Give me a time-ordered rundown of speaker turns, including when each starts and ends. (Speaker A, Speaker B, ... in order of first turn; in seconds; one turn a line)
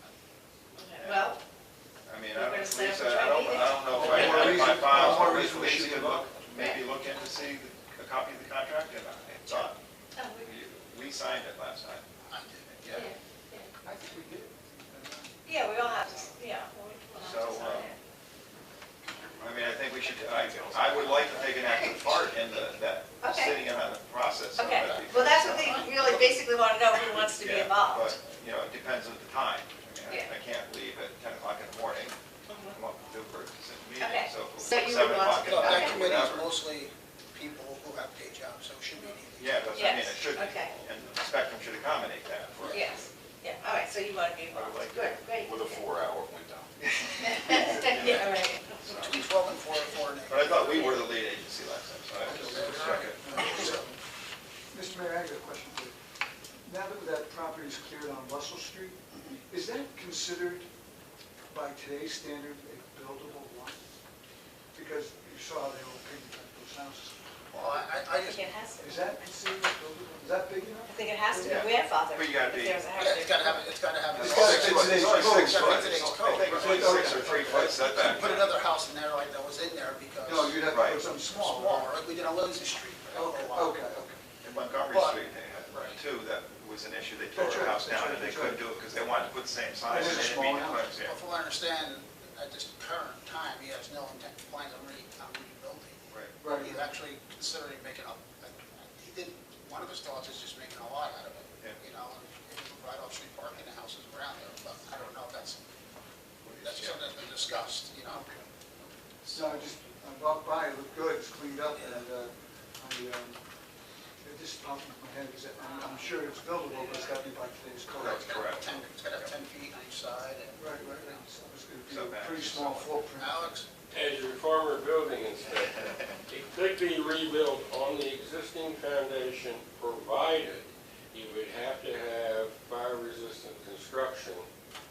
Speaker A: 0.8-1.4
Speaker B: 1.0-1.4
Speaker B: 2.1-9.8
Speaker A: 2.3-4.5
Speaker C: 3.9-6.4
Speaker A: 6.6-6.9
Speaker A: 9.5-10.5
Speaker B: 10.4-12.2
Speaker D: 12.3-13.1
Speaker B: 12.7-13.1
Speaker A: 12.9-13.7
Speaker C: 13.8-15.9
Speaker A: 15.4-18.0
Speaker B: 17.2-17.9
Speaker B: 19.4-26.2
Speaker E: 20.0-22.2
Speaker A: 23.2-23.6
Speaker A: 24.6-28.2
Speaker B: 27.2-36.5
Speaker A: 32.5-32.8
Speaker A: 34.0-36.1
Speaker D: 35.4-39.6
Speaker B: 39.4-43.1
Speaker A: 39.8-40.7
Speaker A: 42.7-45.9
Speaker B: 44.5-45.2
Speaker E: 45.4-48.0
Speaker A: 47.2-49.0
Speaker B: 47.8-49.3
Speaker D: 48.9-51.0
Speaker B: 50.3-53.2
Speaker C: 52.2-54.0
Speaker D: 52.4-53.8
Speaker C: 54.7-56.0
Speaker C: 56.6-60.7
Speaker C: 61.5-63.9
Speaker C: 64.7-67.2
Speaker D: 67.5-68.4
Speaker A: 68.1-69.2
Speaker C: 68.8-71.6
Speaker A: 70.9-73.6
Speaker B: 71.4-72.9
Speaker D: 72.9-83.8
Speaker C: 74.1-77.9
Speaker B: 74.2-78.5
Speaker C: 80.2-81.9
Speaker B: 80.6-81.1
Speaker C: 83.1-84.2
Speaker B: 84.4-91.2
Speaker D: 84.8-86.0
Speaker C: 87.3-88.6
Speaker C: 89.9-90.9
Speaker D: 90.1-105.6
Speaker B: 96.1-96.4
Speaker C: 96.4-96.9
Speaker B: 106.4-107.0
Speaker D: 106.5-108.3
Speaker C: 108.1-108.5
Speaker B: 109.2-109.7
Speaker C: 109.3-113.4
Speaker C: 114.2-118.5
Speaker B: 118.0-119.3
Speaker D: 118.0-121.2
Speaker C: 120.6-123.4
Speaker B: 121.9-123.1
Speaker D: 123.2-123.7
Speaker F: 123.9-134.5
Speaker B: 125.6-126.2